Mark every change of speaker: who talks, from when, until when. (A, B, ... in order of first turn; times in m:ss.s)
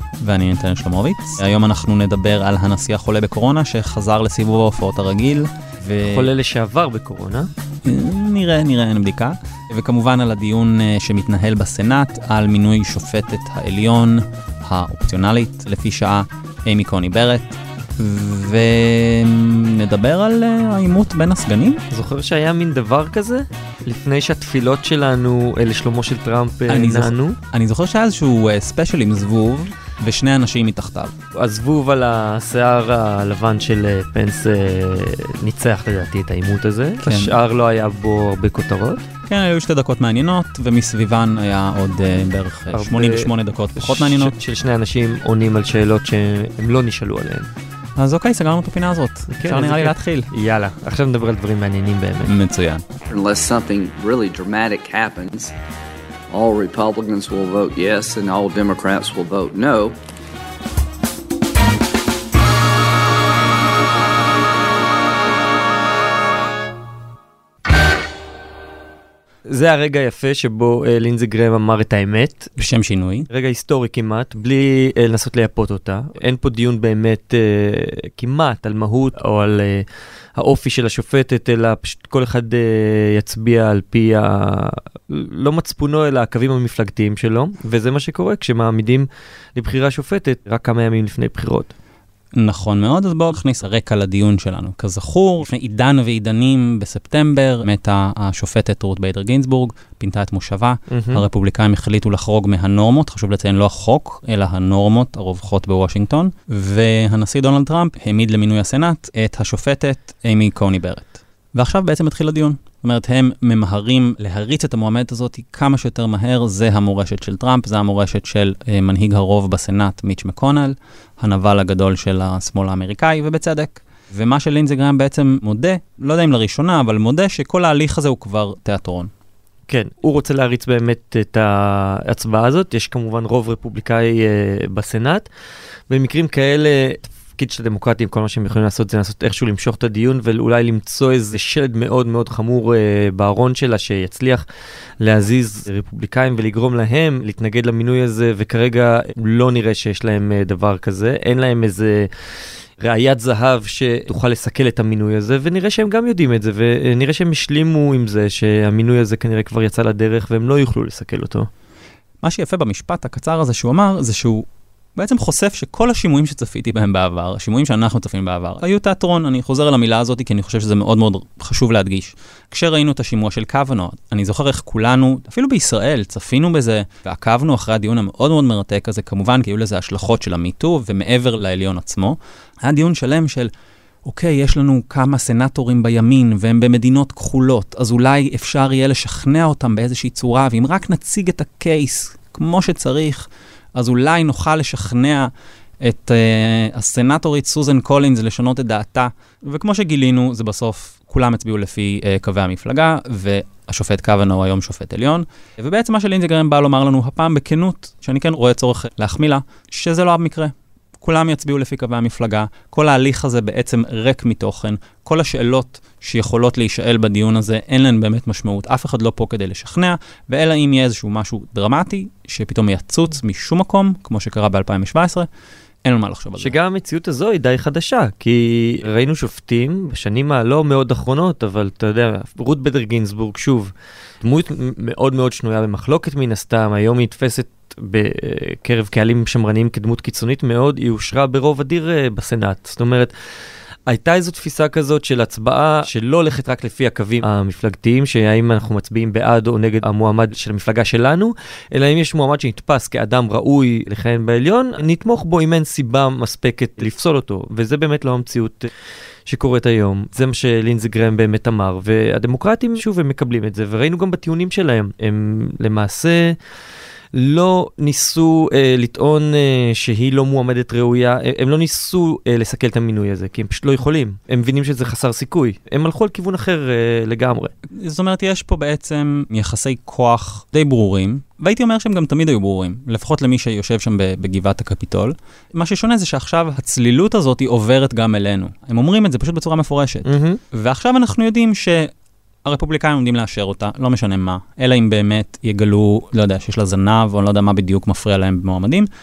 0:00.2-0:06.3 A
0:06.0-0:07.5 B
0:07.8-0:21.8 A
0:21.9-0:27.4 B
0:26.7-0:31.1 A
0:31.3-0:39.0 B
0:37.0-0:37.3 A
0:39.3-0:44.4 A
0:42.7-0:47.5 B
0:48.0-0:50.3 A
0:49.3-0:52.3 B
0:52.3-0:52.9 A
0:53.1-0:55.5 C
0:56.3-1:00.0 C
1:09.5-1:12.5 B
1:12.6-1:13.3 A
1:13.3-1:19.9 B
1:20.4-1:31.7 B
1:32.4-2:09.1 A
1:40.9-1:41.2 B
2:09.7-2:15.3 B
2:15.9-2:24.4 B
2:25.0-2:32.1 B
2:32.8-2:41.5 B
2:42.2-3:03.5 A
3:04.0-3:45.3 A
3:45.8-3:46.6 A
3:46.4-4:03.1 B
4:03.9-4:18.7 B
4:19.3-4:26.4 B
4:27.1-4:37.5 B
4:37.8-4:51.9 A
4:50.1-4:50.4 B
4:52.4-4:58.9 A